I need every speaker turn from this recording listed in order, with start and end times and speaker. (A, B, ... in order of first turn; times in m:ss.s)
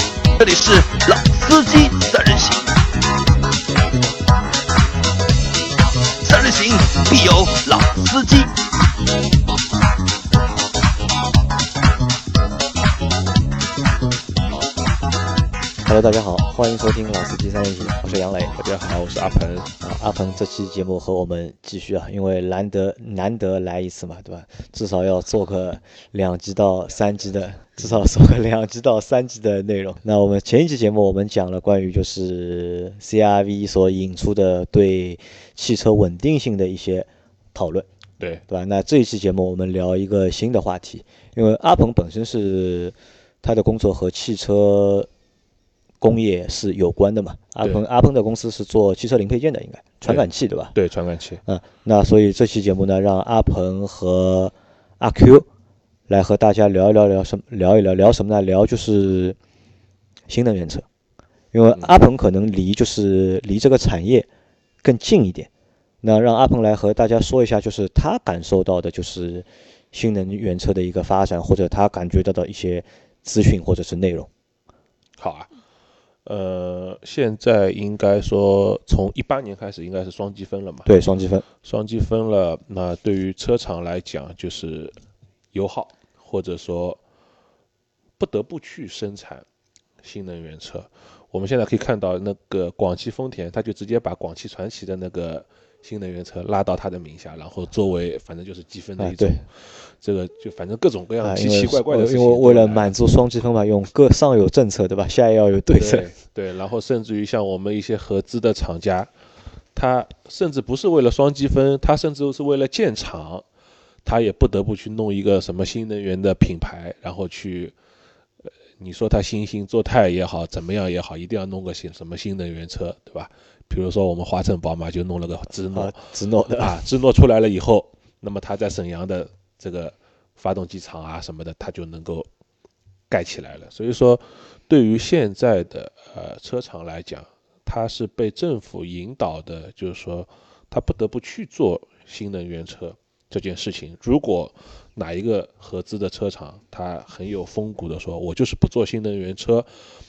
0:00.4-0:02.6 A
0:06.2-0:08.5 A
0:15.8-0:18.6 B
0:18.6-0:19.7 C
0:19.8-0:37.9 B
0:38.5-0:45.1 B
0:46.0-0:50.7 B
0:50.0-0:51.4 C
0:51.5-0:55.5 B
0:56.1-0:59.4 B
1:00.3-1:00.8 B
1:01.5-1:04.3 B
1:04.8-1:05.5 B
1:06.0-1:14.3 B
1:15.2-1:15.5 C
1:16.2-1:21.0 C
1:20.9-1:21.4 B
1:21.6-1:25.0 C
1:25.5-1:27.0 C
1:28.2-1:29.4 C
1:30.0-1:42.9 C
1:39.0-1:39.4 B
1:41.2-1:46.1 B
1:45.8-1:49.1 C
1:49.8-1:53.4 C
1:54.0-1:57.7 C
1:58.8-2:12.3 C
2:05.7-2:06.8 B
2:13.1-2:29.7 C